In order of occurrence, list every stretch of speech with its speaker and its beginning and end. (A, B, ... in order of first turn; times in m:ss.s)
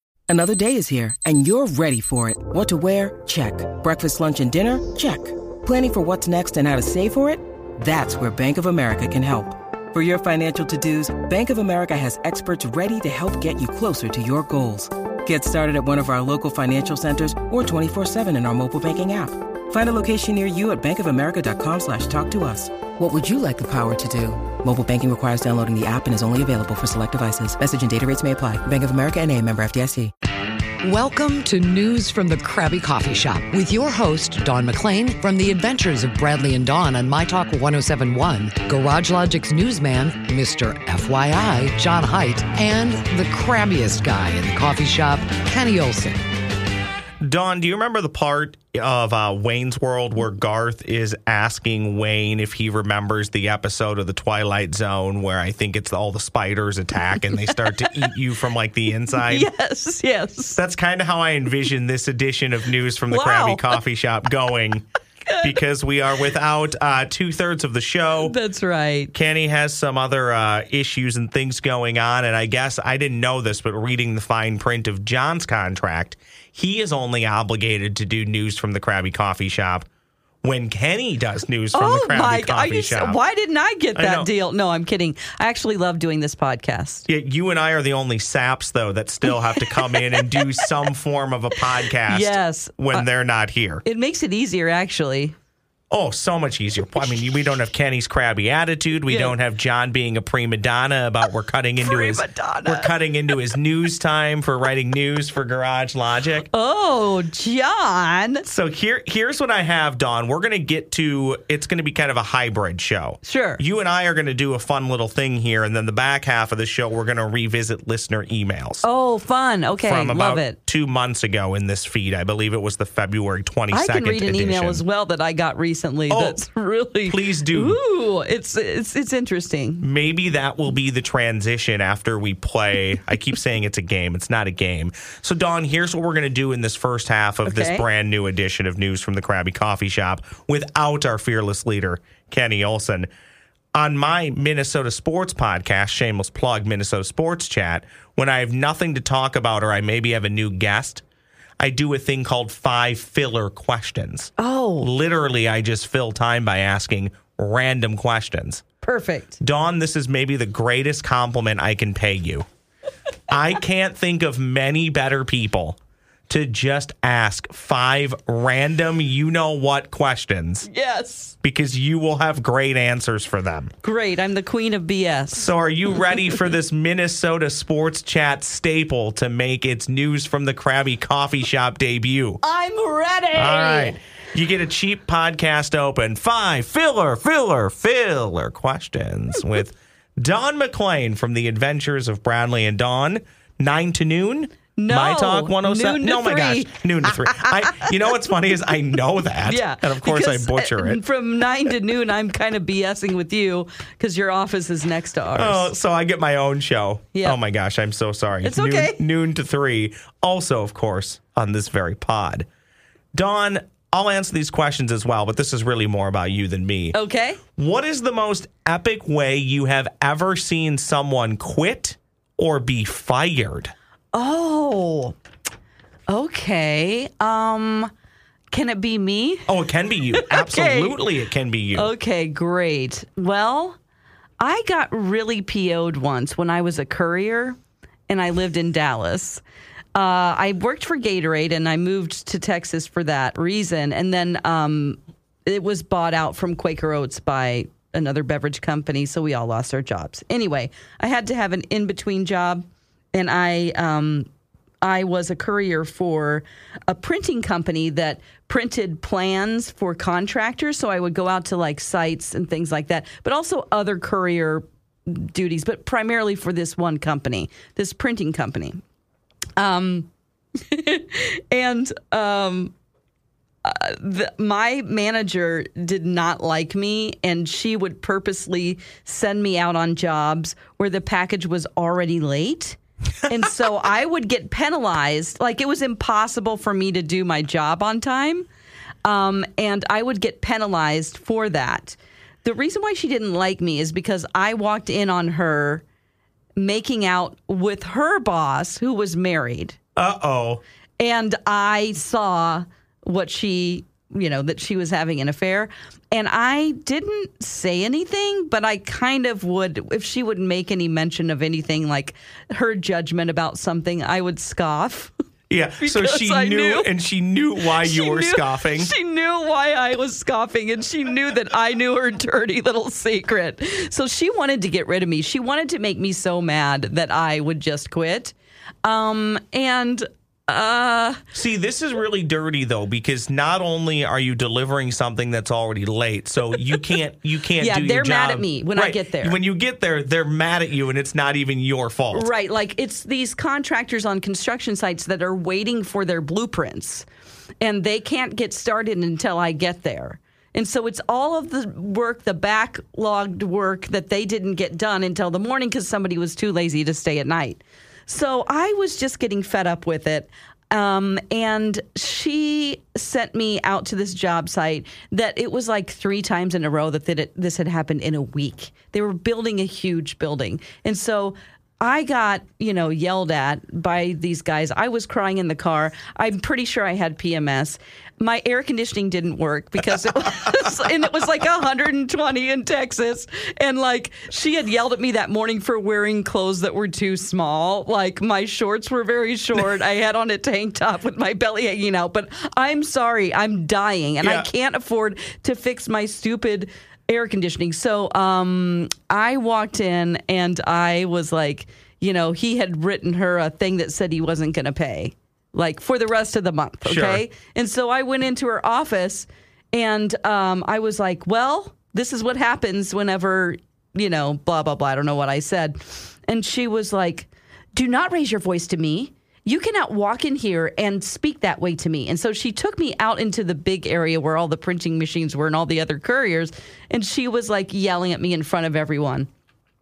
0:00.3-0:30.1 A
0:30.8-0:46.2 B
0:47.2-0:59.5 C
0:59.2-1:00.6 D
1:00.6-1:04.8 C
1:03.1-1:03.7 D
1:05.3-1:05.6 D
1:05.4-1:08.3 C
1:08.2-1:09.1 D
1:09.1-1:19.9 C
1:20.4-1:23.2 C
1:21.7-1:27.0 D
1:24.0-1:24.3 C
1:27.1-1:33.8 C
1:29.6-1:30.7 D
1:32.0-1:33.1 D
1:33.8-1:35.4 D
1:35.9-1:46.5 C
1:39.1-1:39.4 D
1:41.8-1:42.9 D
1:46.5-1:48.5 D
1:48.5-1:58.8 C
1:53.2-1:53.6 D
1:58.8-2:00.6 D
1:59.8-2:04.8 C
2:03.7-2:09.8 D
2:06.1-2:06.4 C
2:07.1-2:07.8 C
2:09.8-2:23.1 C
2:17.4-2:17.9 D
2:23.7-2:31.0 C
2:31.6-2:38.6 C
2:34.4-2:34.9 D
2:38.8-2:39.4 D
2:39.4-2:42.5 C
2:43.3-2:45.8 C
2:46.3-2:50.7 C
2:50.7-2:51.4 D
2:51.4-2:53.7 C
2:53.8-2:55.5 D
2:55.3-3:02.4 C
3:02.4-3:04.0 D
3:03.4-3:21.0 C
3:14.8-3:17.9 D
3:19.4-3:25.7 D
3:25.4-3:32.5 C
3:27.1-3:27.4 D
3:28.4-3:29.0 D
3:33.1-3:37.0 C
3:36.9-3:37.4 D
3:37.6-3:43.7 C
3:44.1-3:45.2 D
3:46.1-3:47.9 D
3:48.5-3:49.5 D
3:49.5-3:51.9 C
3:50.2-3:51.0 D
3:51.8-3:53.8 D
3:54.4-3:57.6 D
3:58.1-3:59.4 D
4:00.0-4:14.3 D
4:14.8-4:28.8 D
4:29.6-4:30.1 D
4:30.7-4:32.7 D
4:33.6-4:48.5 D
4:49.0-4:55.8 D
4:56.6-4:59.8 D
5:00.0-5:00.6 C
5:01.0-5:15.1 D
5:15.5-5:18.9 C
5:15.8-5:16.9 D
5:17.8-5:28.3 D
5:28.8-5:31.2 D
5:31.3-5:42.3 C
5:37.6-5:39.4 D
5:42.1-5:47.1 D
5:47.6-7:09.3 D
6:34.2-6:34.5 C
6:46.8-6:47.2 C